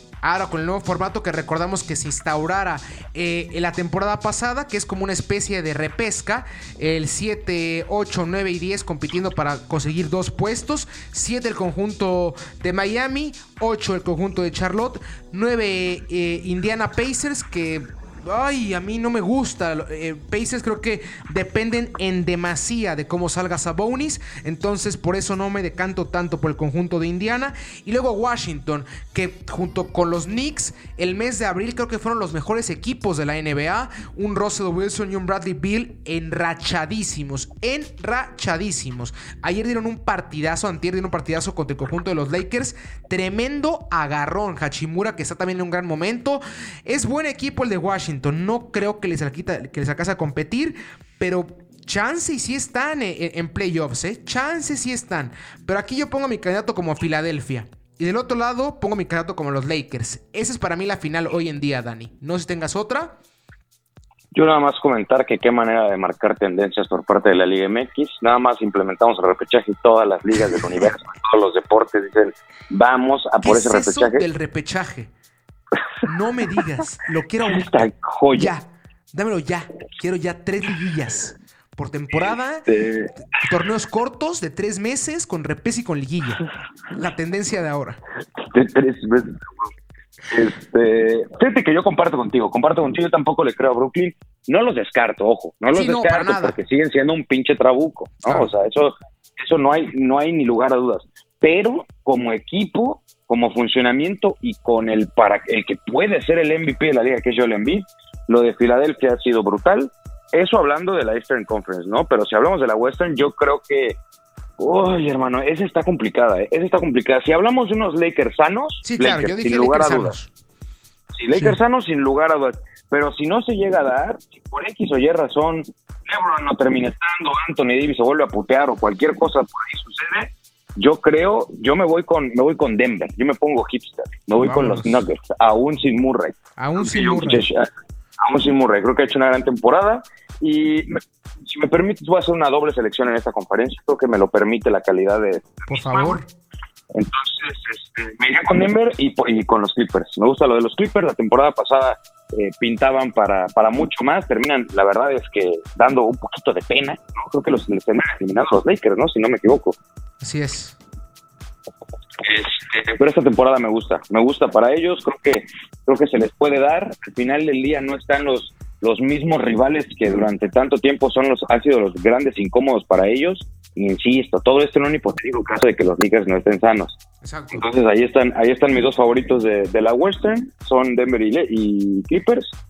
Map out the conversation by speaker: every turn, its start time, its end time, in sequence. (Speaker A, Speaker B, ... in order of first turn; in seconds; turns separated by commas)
Speaker A: 0.2-63.1, Speaker B: 64.3-74.2, Speaker A: 73.4-75.1, Speaker A: 76.0-82.7, Speaker B: 77.5-78.5, Speaker B: 82.1-83.1, Speaker A: 83.3-88.0, Speaker B: 88.5-89.7, Speaker B: 90.3-114.0, Speaker A: 95.7-96.6, Speaker A: 98.2-98.5, Speaker B: 114.6-120.2, Speaker A: 118.8-120.3, Speaker B: 121.2-137.7, Speaker A: 134.4-135.0, Speaker A: 136.6-137.5, Speaker B: 138.2-146.2, Speaker A: 145.7-146.3, Speaker B: 146.9-159.8, Speaker A: 160.2-160.8, Speaker B: 162.2-177.0, Speaker A: 177.2-177.7, Speaker B: 177.5-182.5